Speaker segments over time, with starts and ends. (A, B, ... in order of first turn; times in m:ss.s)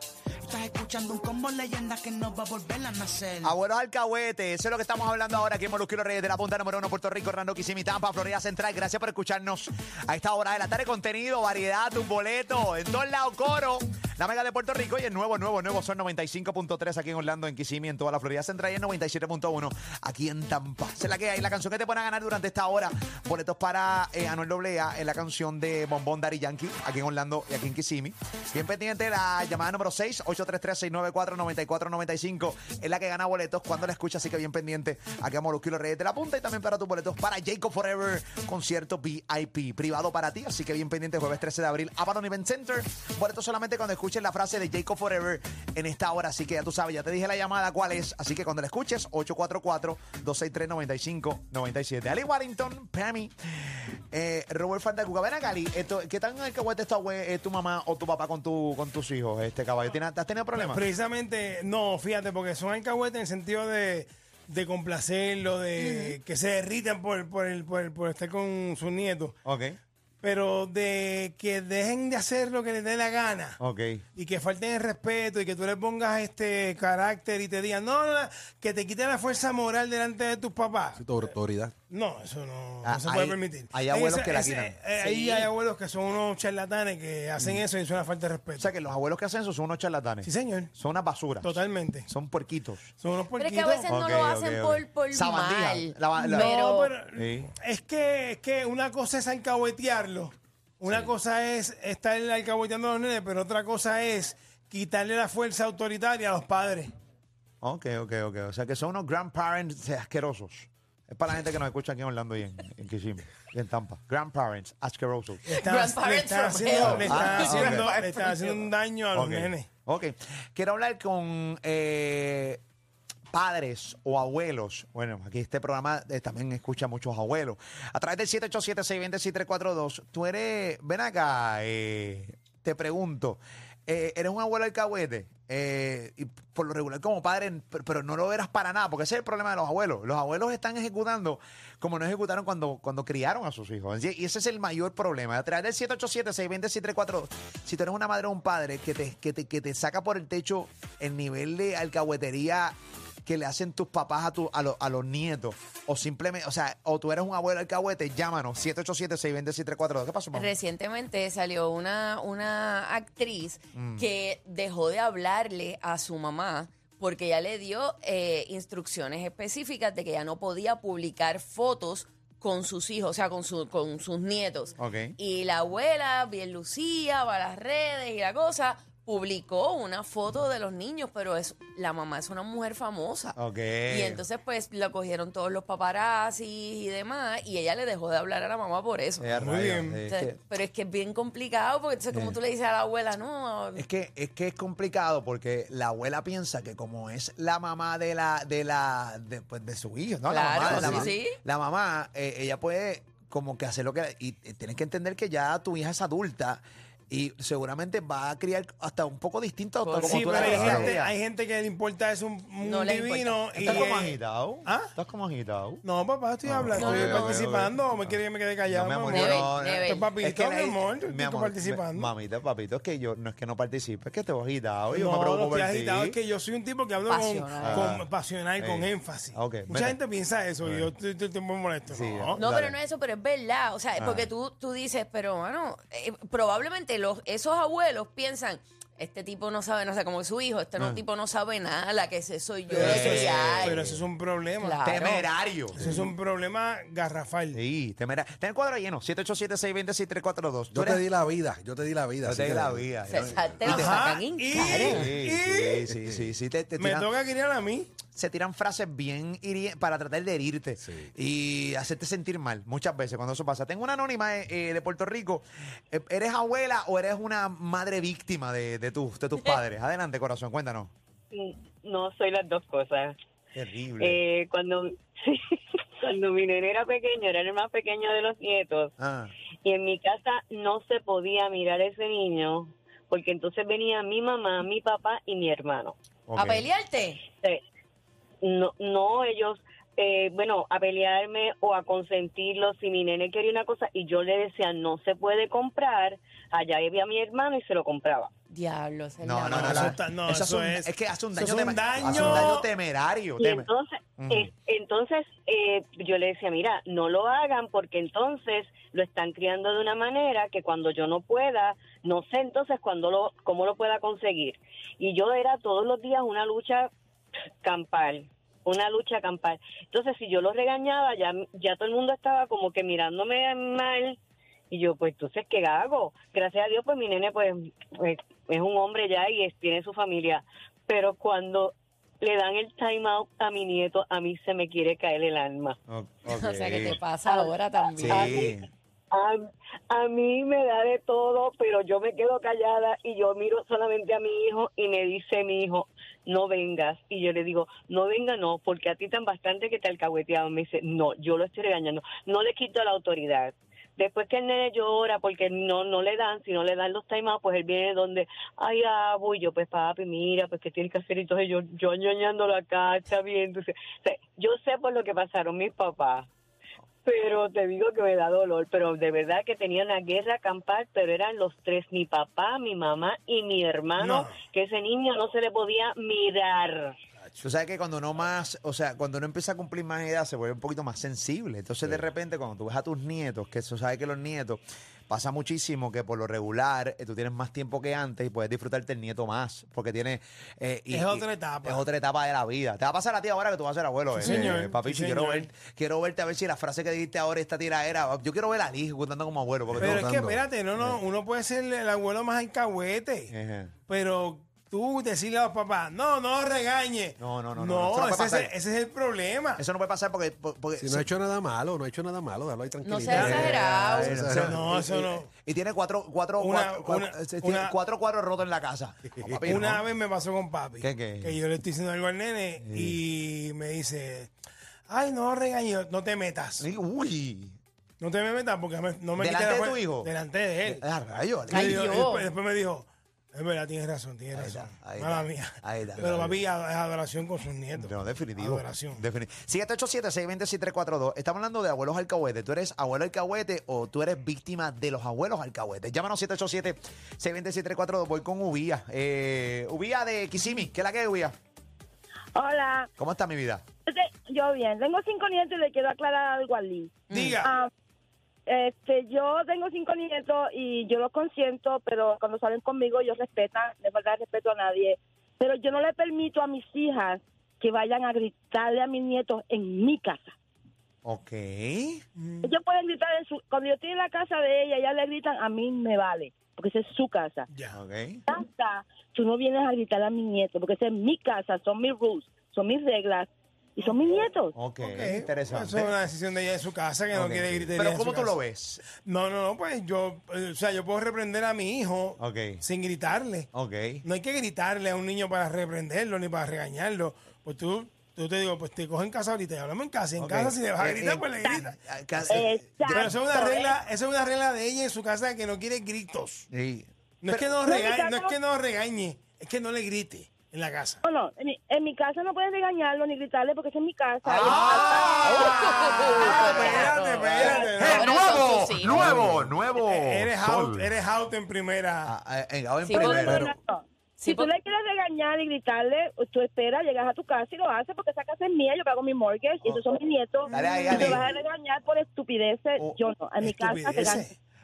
0:00.5-0:03.4 A
0:03.4-0:53.3 B
0:54.1-1:00.8 B
1:00.6-1:09.4 C
1:05.8-1:06.2 D
1:09.4-1:09.8 B
1:10.2-1:13.6 C
1:13.6-1:14.0 B
1:14.2-1:21.2 C
1:20.9-1:21.7 E
1:21.9-1:28.7 C
1:22.8-1:24.8 B
1:25.0-1:25.5 D
1:27.4-1:27.6 B
1:28.6-1:32.9 B
1:30.2-1:30.7 C
1:31.4-1:32.1 C
1:33.0-1:34.2 C
1:33.4-1:36.9 D
1:33.8-1:36.5 B
1:36.1-1:46.9 C
1:37.1-1:37.5 B
1:40.8-1:41.1 B
1:47.6-1:55.5 B
1:55.4-1:59.7 C
1:55.6-1:58.6 D
1:56.7-1:58.0 B
1:59.1-2:02.6 B
2:03.3-2:40.5 B
2:40.3-3:09.3 D
2:43.7-2:44.1 B
2:54.8-2:55.2 B
3:03.4-3:04.2 B
3:09.2-3:10.4 B
3:09.3-3:10.0 C
3:10.0-3:13.8 D
3:12.1-3:12.4 B
3:13.8-3:31.1 B
3:20.3-3:21.4 D
3:20.6-3:21.2 E
3:29.8-3:30.9 D
3:30.0-3:34.9 C
3:30.6-3:30.9 E
3:32.6-3:34.1 D
3:33.6-3:35.8 B
3:35.8-3:42.1 C
3:36.4-3:46.2 B
3:36.6-3:37.3 E
3:36.8-3:37.3 D
3:39.1-3:40.1 D
3:44.9-3:52.4 C
3:47.1-3:47.9 D
3:47.6-3:48.1 B
3:48.6-3:50.0 B
3:50.6-3:50.9 B
3:51.9-3:52.8 B
3:52.4-4:03.8 D
3:54.0-3:54.3 B
4:00.8-4:01.0 B
4:02.7-4:04.8 C
4:02.8-4:03.9 B
4:04.6-4:05.2 D
4:04.8-4:06.1 B
4:05.8-4:07.6 C
4:07.5-4:11.1 B
4:10.7-4:13.6 E
4:12.2-4:17.1 B
4:13.0-4:15.0 D
4:13.6-4:15.9 C
4:16.0-4:16.2 E
4:16.8-4:17.9 C
4:18.1-4:30.9 B
4:20.8-4:21.1 E
4:31.3-4:33.1 F
4:33.5-4:34.2 B
4:34.0-4:38.9 F
4:39.0-4:39.3 B
4:39.6-4:45.9 F
4:46.3-4:46.7 B
4:46.4-4:47.3 D
4:48.4-4:58.3 F
4:58.5-4:59.9 D
4:59.2-5:03.7 B
4:59.5-5:02.7 C
5:03.4-5:16.9 F
5:04.2-5:04.5 B
5:17.6-5:24.2 F
5:24.7-5:35.8 F
5:35.9-5:37.0 B
5:36.3-5:38.5 D
5:37.2-5:38.6 F
5:38.0-5:38.7 B
5:39.1-6:06.3 F
6:07.0-6:17.0 F
6:14.0-6:14.4 C
6:17.2-6:17.4 C
6:17.4-6:40.1 B
6:30.9-6:31.8 C
6:34.1-6:35.5 C
6:39.7-6:40.4 E
6:39.8-6:43.3 C
6:43.3-6:43.7 B
6:43.9-6:49.6 C
6:47.2-6:48.5 B
6:49.6-6:51.1 B
6:50.8-6:54.6 E
6:52.8-6:54.2 D
6:53.1-6:53.5 C
6:53.2-6:59.8 B
6:54.3-6:55.3 C
6:56.4-6:57.7 C
6:59.4-7:04.3 C
7:00.8-7:01.4 B
7:02.6-7:03.0 B
7:04.9-7:06.6 C
7:06.6-7:07.6 B
7:08.0-7:10.8 C
7:09.2-7:10.1 B
7:10.6-7:11.8 B
7:11.5-7:12.3 D
7:11.5-7:19.0 C
7:14.3-7:16.3 B
7:17.8-7:31.3 B
7:32.3-7:32.9 G
7:33.0-7:33.6 B
7:33.9-7:37.7 G
7:37.1-7:37.4 D
7:37.1-7:37.5 C
7:38.5-7:50.4 G
7:51.0-7:52.0 B
7:52.2-7:52.5 C
7:52.4-7:57.5 G
7:57.5-7:57.8 C
7:57.7-7:58.2 B
7:58.3-8:04.6 G
8:04.5-8:06.0 B
8:04.8-8:08.3 C
8:07.1-8:08.8 B
8:08.9-8:13.5 C
8:12.2-8:12.6 B
8:13.5-8:14.0 B
8:14.0-8:21.8 C
8:20.2-8:23.1 B
8:21.4-8:21.6 G
8:22.3-8:23.7 G
8:22.8-8:26.4 C
8:26.5-8:27.6 B
8:27.2-8:31.0 C
8:27.6-8:28.4 G
8:31.0-8:35.8 G
8:34.2-8:36.8 B
8:34.4-8:42.1 C
8:35.2-8:39.2 D
8:36.4-8:37.9 G
8:37.7-8:40.9 B
8:38.9-8:39.3 E
8:42.0-8:43.5 B
8:42.9-8:43.5 D
8:42.9-8:54.3 G
8:43.2-8:43.5 E
8:44.2-8:44.5 D
8:50.5-8:51.1 C
8:50.5-8:51.2 B
8:53.4-8:54.4 C